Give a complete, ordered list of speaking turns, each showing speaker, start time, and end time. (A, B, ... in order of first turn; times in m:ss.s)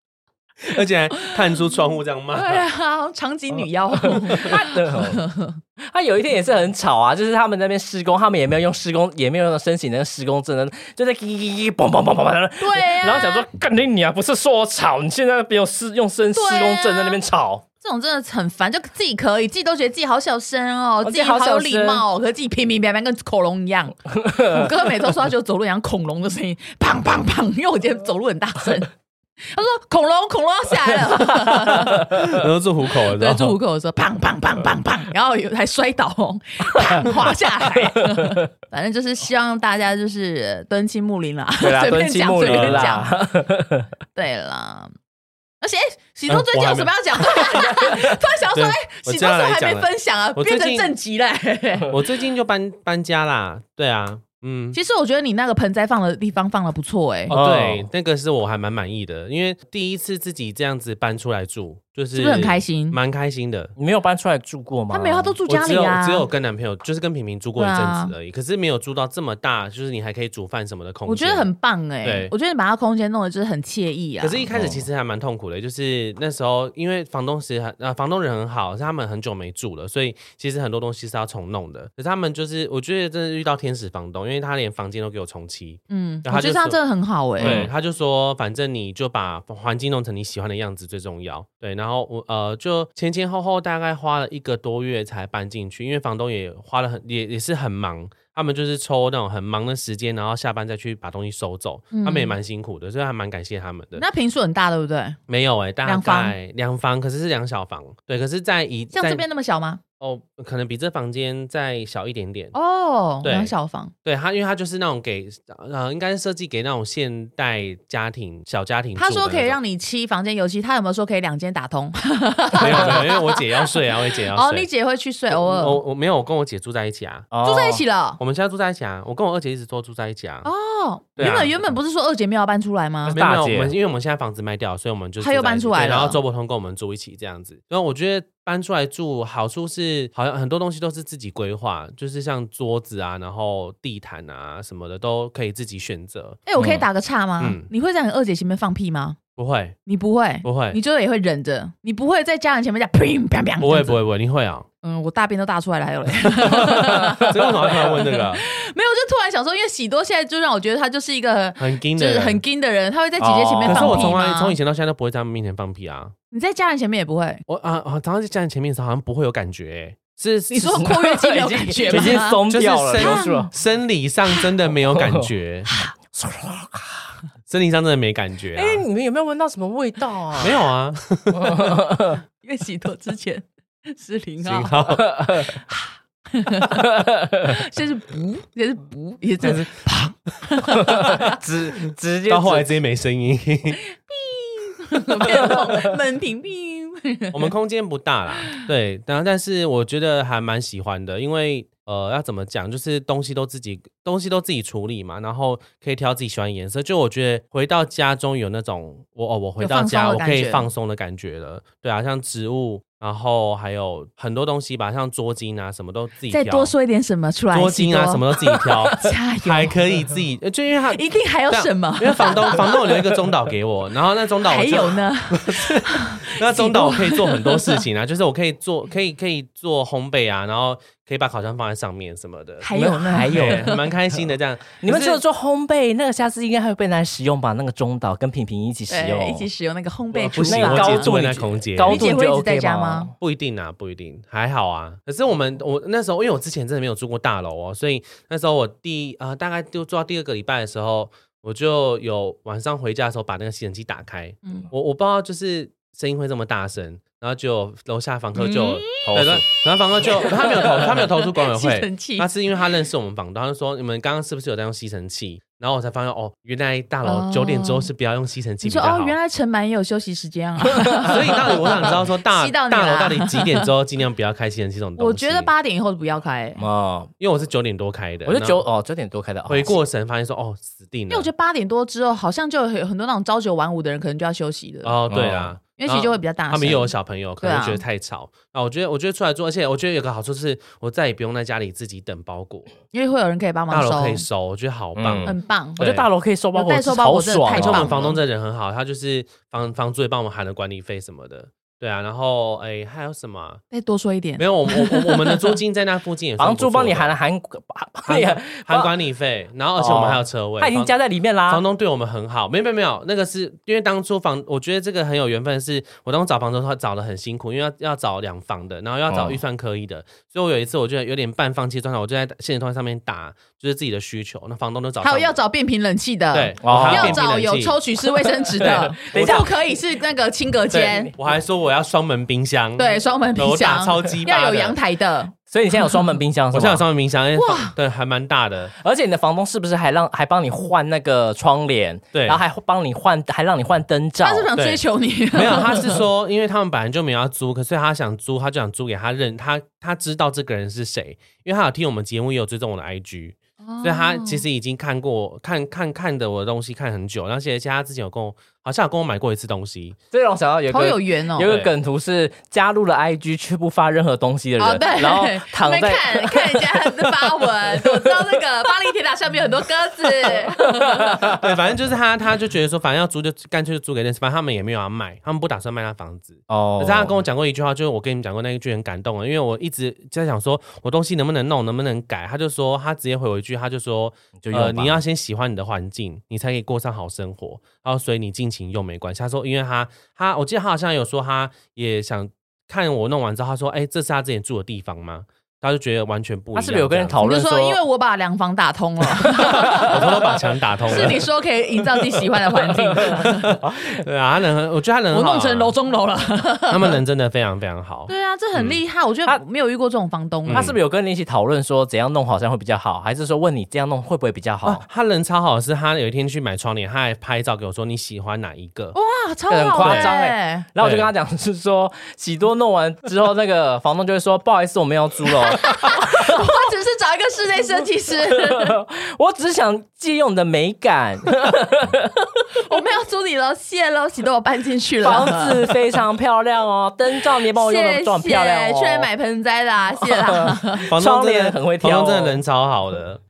0:00.7-0:02.6 A
0:02.3-0:05.6 B
0:04.0-0:05.3 C
0:05.8-0:17.6 C
0:12.6-0:13.4 B
0:16.3-0:17.2 B
0:17.8-0:28.9 B
0:21.0-0:22.0 C
0:24.2-0:24.7 C
0:29.5-0:32.2 B
0:31.6-0:33.6 A
0:33.1-0:43.1 B
0:41.6-0:43.9 C
0:42.4-0:43.0 A
0:44.2-0:44.9 B
0:45.6-0:52.0 B
0:46.3-0:47.4 A
0:48.5-0:50.9 A
0:51.9-0:54.8 A
0:54.7-0:57.4 B
0:57.3-1:03.7 A
0:57.3-0:57.9 C
1:02.2-1:03.0 B
1:03.8-1:05.4 C
1:04.9-1:06.3 B
1:05.5-1:11.5 A
1:07.6-1:08.1 B
1:11.1-1:14.5 B
1:12.0-1:12.3 A
1:14.2-1:26.8 A
1:14.5-1:14.9 C
1:25.9-1:27.6 B
1:27.4-1:27.7 C
1:27.4-1:44.0 A
1:41.9-1:42.4 B
1:44.0-1:45.2 B
1:45.3-1:49.2 A
1:45.9-1:46.4 B
1:48.9-1:49.8 B
1:50.0-1:52.6 A
1:52.5-1:53.9 B
1:53.2-1:53.5 A
1:54.0-1:59.6 A
1:59.0-2:03.7 B
2:02.6-2:04.7 A
2:04.3-2:05.8 B
2:05.3-2:07.3 A
2:07.3-2:07.8 C
2:07.4-2:08.2 B
2:08.2-2:10.5 A
2:10.4-2:13.2 B
2:11.2-2:11.6 A
2:13.0-2:26.4 A
2:13.2-2:13.7 C
2:15.2-2:16.2 B
2:26.5-2:29.2 B
2:26.6-2:26.8 C
2:27.4-2:27.7 A
2:29.4-2:29.8 A
2:29.9-2:34.0 B
2:30.4-2:30.8 A
2:33.6-2:34.7 A
2:34.8-2:44.6 B
2:36.4-2:38.4 A
2:41.6-2:42.4 A
2:43.2-2:44.2 C
2:43.7-2:46.1 A
2:46.3-2:47.4 B
2:47.5-2:50.9 A
2:50.5-2:53.5 B
2:50.6-2:53.5 C
2:51.9-2:55.7 A
2:54.9-2:55.2 C
2:55.7-2:55.9 B
2:56.1-2:57.1 C
2:57.5-2:58.8 A
2:58.6-3:00.6 C
3:00.4-3:01.7 A
3:01.3-3:02.2 C
3:02.4-3:04.8 B
3:04.4-3:05.6 A
3:05.1-3:05.4 C
3:05.7-3:06.9 B
3:06.8-3:07.5 C
3:07.4-3:11.4 B
3:10.8-3:12.7 C
3:12.3-3:13.8 A
3:14.1-3:17.5 B
3:15.3-3:15.8 C
3:17.3-3:36.7 A
3:29.6-3:30.7 B
3:36.3-3:39.8 B
3:37.5-3:52.7 A
3:40.9-3:42.9 B
3:44.4-3:47.8 B
3:52.6-3:53.8 B
3:52.7-3:53.8 C
3:53.3-3:55.2 A
3:54.8-3:59.5 C
3:58.9-4:01.2 B
4:00.1-4:03.1 C
4:00.3-4:02.2 A
4:01.8-4:03.1 B
4:03.2-4:29.2 A
4:18.4-4:19.1 B
4:19.0-4:19.4 C
4:20.0-4:22.3 B
4:27.0-4:27.9 B
4:28.6-4:33.7 B
4:31.0-4:35.5 A
4:35.0-4:36.6 B
4:36.6-4:37.1 C
4:37.2-4:38.6 A
4:38.3-4:39.8 C
4:39.5-4:41.3 A
4:41.1-4:45.0 B
4:44.8-4:52.7 A
4:45.1-4:45.5 C
4:45.8-4:47.8 B
4:52.9-4:54.3 B
4:53.7-4:56.1 A
4:55.0-4:58.2 C
4:55.3-4:55.8 B
4:56.6-4:58.2 B
4:57.5-5:03.6 A
5:03.7-5:05.6 B
5:04.4-5:07.1 A
5:06.4-5:08.9 C
5:08.1-5:10.9 A
5:09.8-5:11.6 C
5:11.5-5:25.4 A
5:19.1-5:19.4 C
5:25.0-5:31.1 B
5:26.3-5:27.8 A
5:26.6-5:27.2 C
5:28.6-5:29.5 A
5:28.6-5:29.5 C
5:30.7-5:34.8 A
5:30.8-5:31.1 C
5:32.8-5:36.1 B
5:35.5-5:36.8 C
5:36.5-5:38.7 A
5:37.4-5:37.8 B
5:38.8-5:44.5 C
5:42.1-5:42.4 A
5:44.2-5:46.0 B
5:44.6-6:00.0 A
5:53.6-5:54.4 B
6:00.1-6:08.4 C
6:00.7-6:01.5 B
6:01.4-6:01.7 A
6:04.6-6:11.4 B
6:10.2-6:11.4 C
6:11.3-6:37.2 A
6:16.5-6:17.1 C
6:24.4-6:25.0 C
6:36.6-6:37.8 C
6:37.2-6:40.1 B
6:39.4-6:40.0 C
6:39.4-6:41.2 A
6:40.9-6:43.6 B
6:43.1-6:45.7 A
6:43.6-6:44.0 C
6:45.1-6:47.0 B
6:46.7-6:48.8 A
6:48.1-6:50.7 B
6:50.5-6:50.8 A
6:50.5-6:54.8 C
6:54.6-6:59.0 A
6:58.9-7:00.7 B
6:59.5-7:06.4 C
6:59.8-7:00.1 A
7:00.8-7:01.1 A
7:05.6-7:08.8 B
7:08.2-7:12.1 C
7:12.7-7:15.6 B
7:15.0-7:19.1 C
7:17.5-7:20.9 B
7:20.1-7:22.4 C
7:20.9-7:23.2 A